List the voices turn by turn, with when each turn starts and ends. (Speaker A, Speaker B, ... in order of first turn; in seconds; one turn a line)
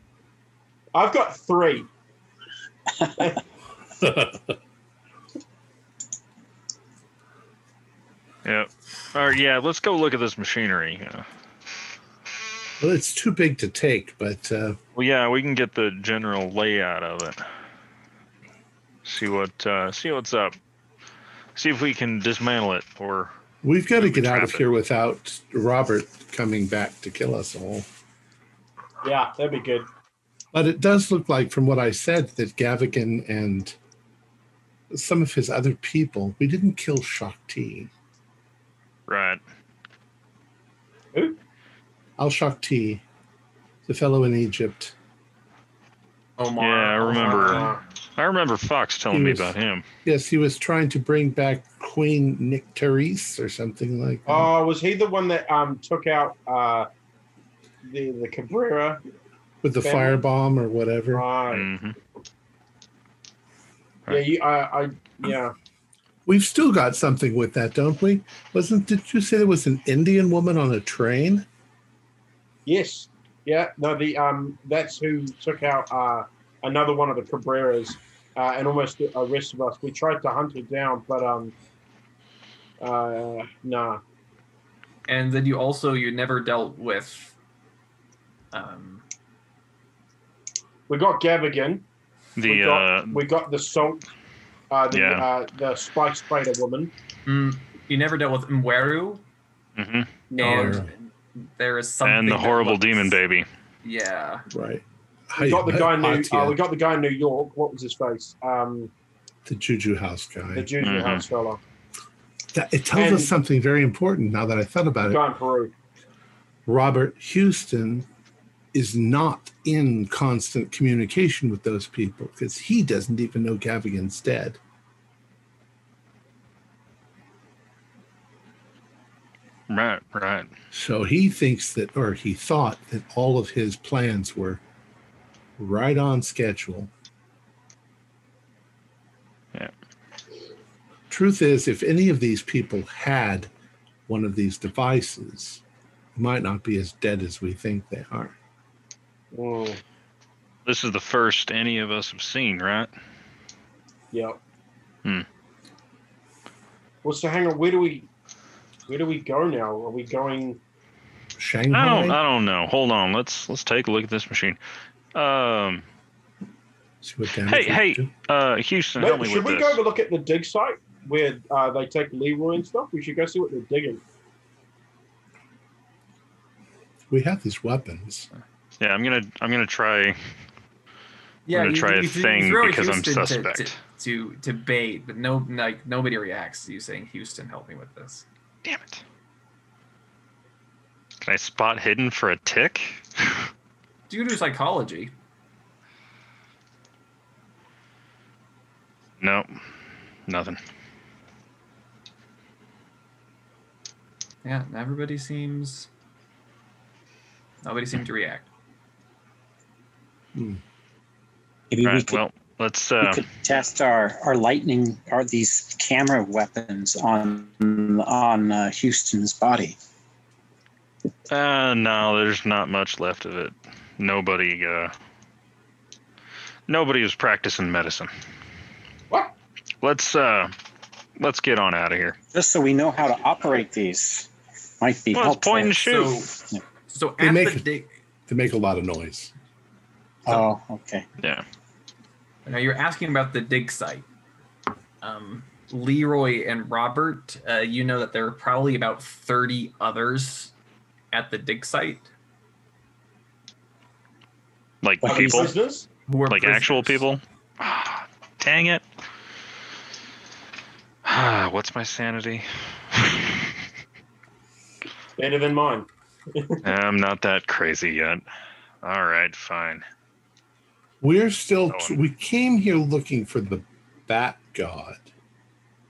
Speaker A: 0.9-1.9
Speaker A: 3.2-3.4
Speaker B: 4.0-4.3
Speaker C: 8.4-11.3
Speaker B: 12.8-14.8
Speaker C: 15.0-17.5
Speaker C: 19.1-20.6
Speaker C: 21.6-23.3
Speaker B: 23.6-27.9
Speaker C: 23.9-24.6
Speaker A: 29.0-29.9
Speaker B: 30.5-33.8
Speaker B: 34.9-37.9
Speaker C: 39.1-39.4
Speaker B: 42.2-43.0
Speaker B: 43.9-45.0
Speaker D: 46.4-47.7
Speaker C: 46.6-49.8
Speaker A: 47.1-47.8
Speaker B: 49.1-54.5
Speaker A: 54.3-56.9
Speaker A: 57.8-59.0
Speaker B: 59.6-61.2
Speaker A: 59.8-60.2
Speaker A: 61.1-61.7
Speaker C: 61.5-62.0
Speaker A: 64.1-65.5
Speaker B: 66.3-71.5
Speaker A: 72.7-81.5
Speaker A: 82.8-84.0
Speaker D: 85.1-87.3
Speaker D: 88.5-89.0
Speaker A: 90.9-91.8
Speaker C: 92.4-93.2
Speaker A: 92.4-94.0
Speaker A: 94.7-96.9
Speaker C: 94.9-95.3
Speaker D: 97.3-99.2
Speaker C: 99.8-100.1
Speaker A: 100.3-100.8
Speaker D: 100.4-103.2
Speaker B: 100.4-100.9
Speaker C: 102.0-103.5
Speaker D: 103.8-104.5
Speaker B: 104.5-106.6
Speaker A: 105.4-108.9
Speaker B: 109.5-110.8
Speaker A: 110.5-111.6
Speaker C: 110.8-111.2
Speaker B: 112.5-115.2
Speaker A: 112.9-113.3
Speaker A: 115.1-115.7
Speaker B: 116.7-118.1
Speaker B: 118.7-124.6
Speaker C: 129.7-130.5
Speaker B: 130.7-134.6
Speaker B: 135.6-136.9
Speaker B: 141.1-143.5
Speaker B: 144.1-145.6
Speaker B: 146.2-148.3
Speaker A: 149.3-149.8
Speaker C: 150.7-152.9
Speaker A: 154.1-154.4
Speaker A: 157.0-158.1
Speaker A: 158.9-160.6
Speaker B: 161.4-162.2
Speaker C: 161.7-164.6
Speaker C: 165.1-165.8
Speaker B: 167.0-168.1
Speaker C: 167.4-169.8
Speaker A: 169.0-174.0
Speaker B: 177.1-178.3
Speaker C: 178.8-180.2
Speaker D: 181.5-188.3
Speaker C: 181.5-183.8
Speaker C: 188.7-189.0
Speaker C: 191.2-193.5
Speaker D: 194.1-195.1
Speaker C: 199.2-199.5
Speaker C: 200.3-200.6
Speaker D: 204.4-205.9
Speaker D: 207.6-208.4
Speaker B: 210.3-210.6
Speaker E: 211.7-212.2
Speaker C: 211.8-213.2
Speaker E: 213.0-219.8
Speaker C: 221.3-224.9
Speaker C: 226.7-228.1
Speaker C: 229.8-230.6
Speaker C: 231.2-232.2
Speaker E: 232.3-234.3
Speaker E: 234.8-236.6
Speaker C: 235.1-236.3
Speaker D: 235.8-236.3
Speaker D: 236.9-237.9
Speaker B: 237.2-237.7
Speaker B: 238.3-239.3
Speaker E: 240.3-241.1
Speaker D: 242.5-244.1
Speaker D: 245.0-250.5
Speaker D: 251.1-252.1
Speaker C: 254.8-255.5
Speaker E: 255.0-255.5
Speaker A: 255.1-255.9
Speaker D: 256.1-257.0
Speaker C: 256.3-258.8
Speaker C: 261.1-263.6
Speaker A: 265.2-266.6
Speaker C: 266.6-268.2
Speaker C: 268.8-269.9
Speaker B: 271.0-275.1